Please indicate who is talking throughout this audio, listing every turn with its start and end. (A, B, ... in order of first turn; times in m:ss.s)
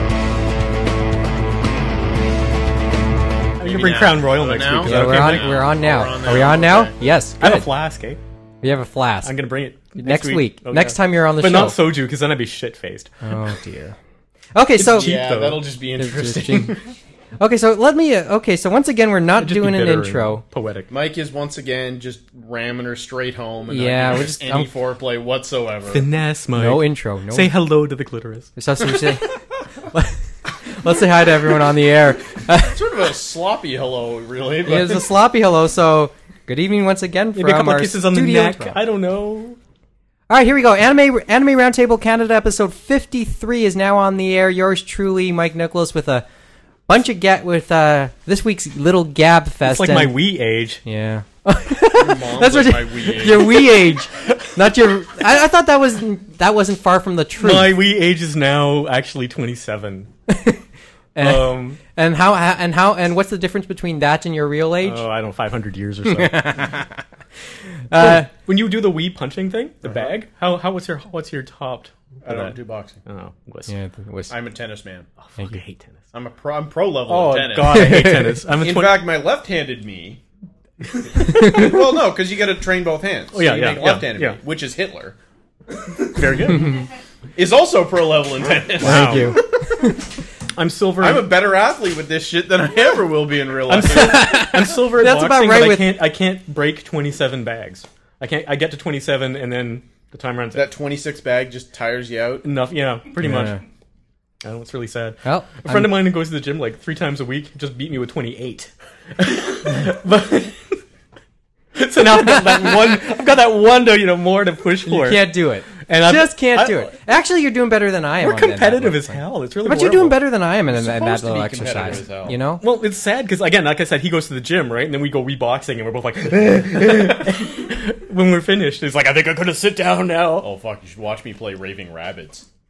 0:03.6-0:05.6 A
0:03.6-0:06.9 B
0:04.8-0:07.7 C
0:07.4-0:08.2 A
0:08.6-0:09.3 C
0:09.2-0:13.2 A
0:10.0-0:11.8 C
0:13.2-0:14.0 C
0:14.5-0:15.1 C
0:14.8-0:15.7 A
0:14.9-0:16.8 B
0:15.9-0:16.8 C
0:17.4-0:20.4 C
0:19.4-0:20.9 A
0:20.9-0:26.0 B
0:23.7-0:24.7 C
0:25.9-0:28.5 A
0:26.6-0:27.5 C
0:28.6-0:29.3 C
0:29.9-0:32.8 C
0:32.6-0:35.1 B
0:34.6-0:38.8 C
0:37.4-0:39.6 A
0:40.3-0:46.2 C
0:46.9-0:50.2 C
0:49.6-0:50.8 A
0:50.8-0:57.7 C
0:52.0-0:53.7 B
0:57.4-1:00.1 A
1:00.3-1:00.6 C
1:01.1-1:05.0 C
1:01.2-1:01.8 A
1:04.8-1:06.7 A
1:06.0-1:06.9 C
1:07.9-1:08.3 C
1:07.9-1:13.7 A
1:09.8-1:10.1 B
1:12.2-1:13.0 B
1:13.7-1:14.3 C
1:14.3-1:15.1 B
1:15.2-1:16.0 A
1:16.1-1:20.2 B
1:17.1-1:19.1 A
1:17.7-1:18.4 C
1:20.8-1:21.8 A
1:21.2-1:25.2 B
1:23.3-1:24.4 A
1:26.0-1:26.8 A
1:26.5-1:26.8 C
1:27.4-1:29.3 B
1:28.8-1:29.4 A
1:28.8-1:30.0 C
1:30.6-1:31.3 A
1:31.0-1:34.4 B
1:33.7-1:40.7 A
1:34.0-1:35.9 C
1:40.5-1:42.5 B
1:42.4-1:43.6 A
1:43.2-1:43.6 C
1:44.4-1:50.7 A
1:45.2-1:45.9 C
1:51.7-1:55.3 A
1:54.8-2:02.6 C
1:55.8-1:56.9 A
1:58.2-2:00.2 A
2:00.7-2:02.4 B
2:02.6-2:10.5 A
2:10.4-2:12.4 B